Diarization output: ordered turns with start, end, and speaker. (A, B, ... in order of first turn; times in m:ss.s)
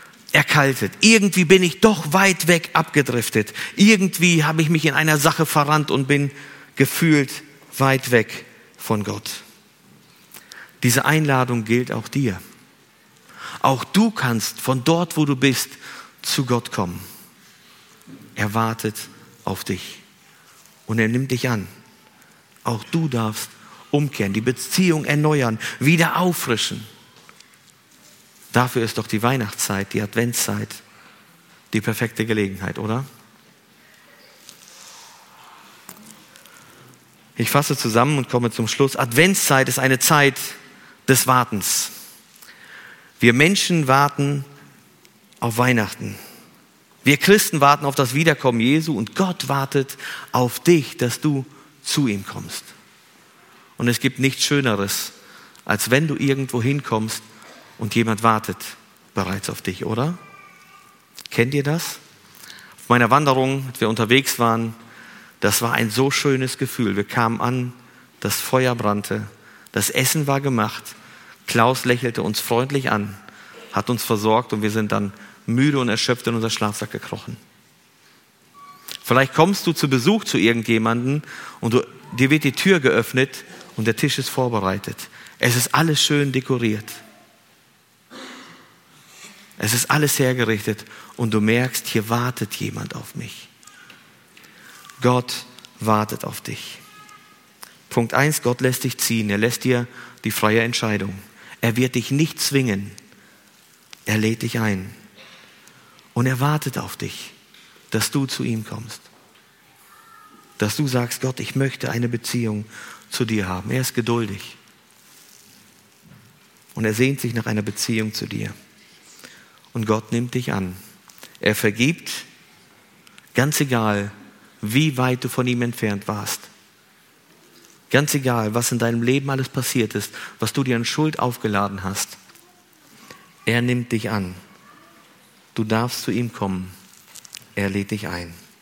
0:00.3-0:09.4 A
0:10.8-0:12.4 A
0:13.6-0:17.0 A
0:18.4-0:20.0 A
0:20.9-0:21.7 A
0:22.6-0:26.9 A
0:28.5-0:30.8 A
0:31.7-0:33.0 A
0:37.4-0:41.9 A
0:43.2-0:44.4 A
0:45.4-0:46.2 A
0:47.0-0:52.7 A
0:53.8-0:55.1 A
0:55.6-0:57.2 A
0:57.8-1:00.2 A
1:01.3-1:02.0 A
1:02.8-1:04.8 A
1:05.4-1:10.9 A
1:11.4-1:13.2 A
1:13.7-1:17.4 A
1:19.0-1:27.0 A
1:29.6-1:33.5 A
1:35.0-1:36.8 A
1:37.9-1:42.9 A
1:44.0-1:44.9 A
1:46.1-1:47.3 A
1:47.9-1:49.1 A
1:50.6-1:54.6 A
1:56.7-1:58.5 A
1:59.7-2:00.8 A
2:01.4-2:02.2 A
2:03.3-2:06.5 A
2:07.9-2:12.2 A
2:13.4-2:14.4 A
2:15.5-2:16.7 A
2:17.6-2:18.4 A